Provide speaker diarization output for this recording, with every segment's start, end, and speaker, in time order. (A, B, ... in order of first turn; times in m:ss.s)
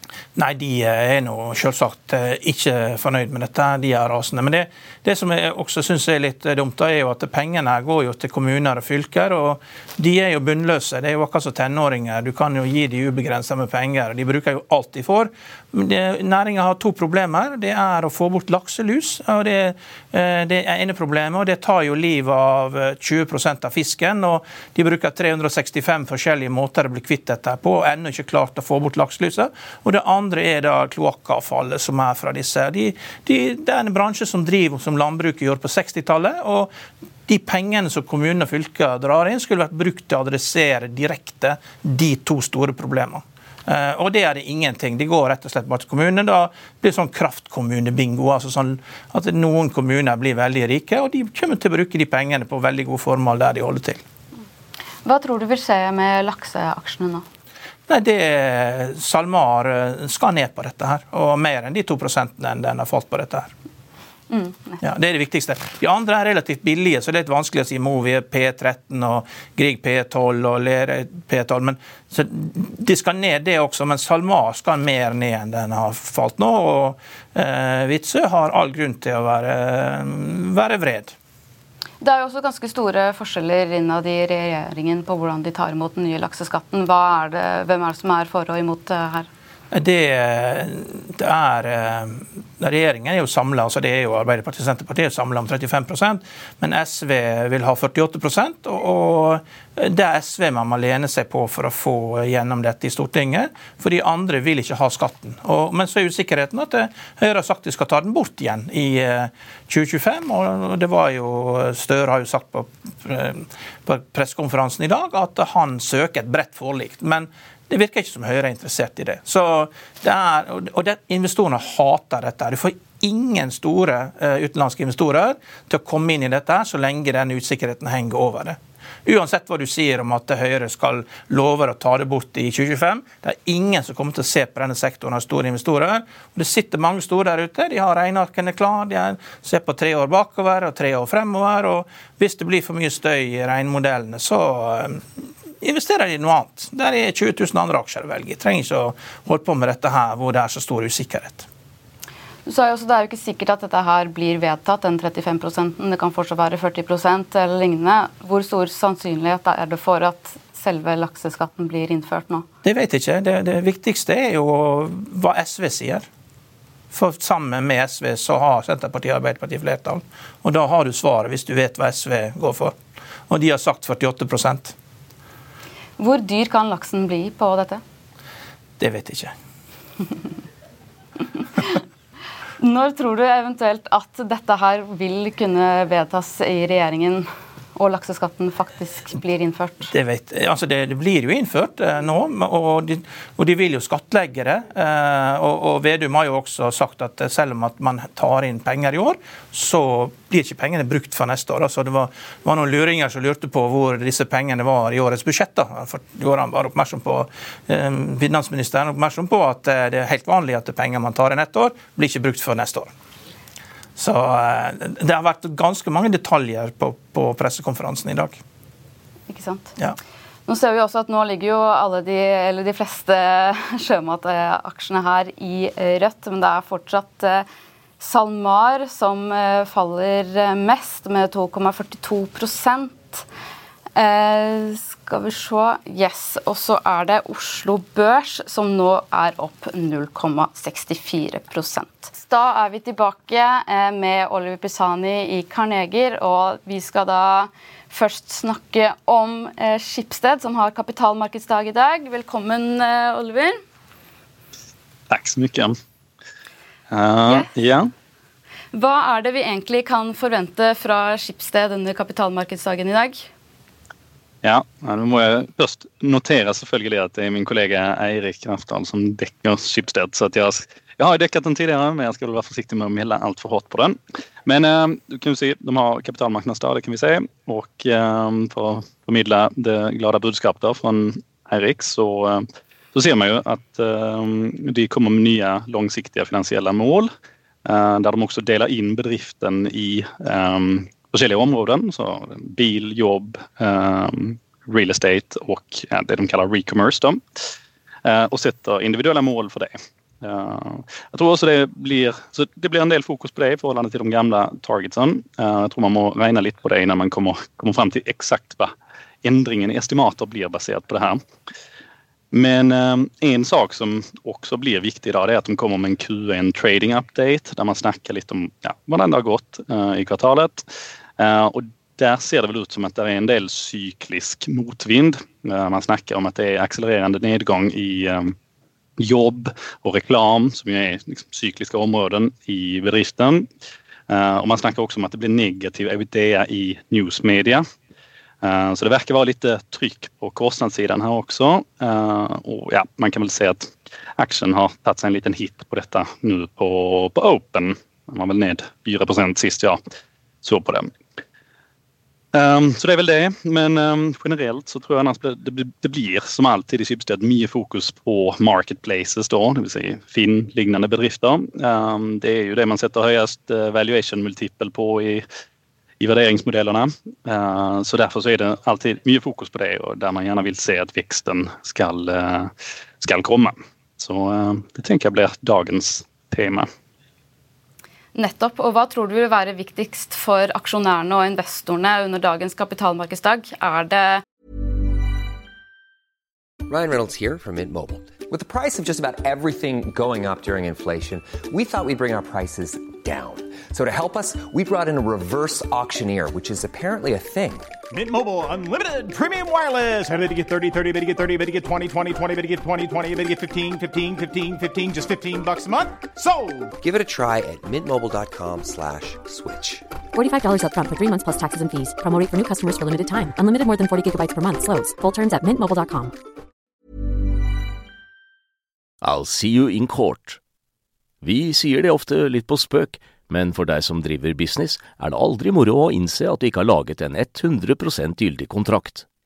0:00.4-0:36.7 A
0:37.3-0:54.0 A
0:55.0-0:57.2 B
0:57.9-1:03.5 A
1:04.3-1:04.8 B
1:04.8-1:21.1 A
1:22.0-1:29.3 B
1:29.7-2:25.0 A
2:25.6-2:31.4 A
2:32.4-2:42.4 B
2:42.6-2:46.1 A
2:46.9-2:52.7 A
2:53.3-2:54.7 A
2:56.0-2:57.8 B
2:58.8-2:59.3 A
3:02.6-3:09.9 B
3:09.9-3:32.9 A
3:34.0-3:38.4 A
3:39.3-3:39.7 B
3:40.5-3:47.4 B
3:48.0-3:53.2 B
3:54.0-4:13.6 B
4:15.1-4:15.7 C
4:16.9-4:17.9 C
4:18.7-4:23.3 B
4:24.4-4:47.1 C
4:47.6-4:57.4 C
4:58.0-5:11.2 C
5:12.3-5:20.7 C
5:21.2-5:28.3 C
5:29.0-5:33.5 C
5:34.1-5:37.6 C
5:38.4-5:49.8 C
5:50.4-5:50.9 C
5:52.3-6:05.2 C
6:06.0-6:16.7 C
6:18.1-6:24.2 B
6:26.7-6:37.7 D
6:37.9-6:46.7 E
6:46.8-6:49.9 D
6:50.1-6:56.1 F
6:59.0-7:00.4 G
7:01.2-7:09.1 G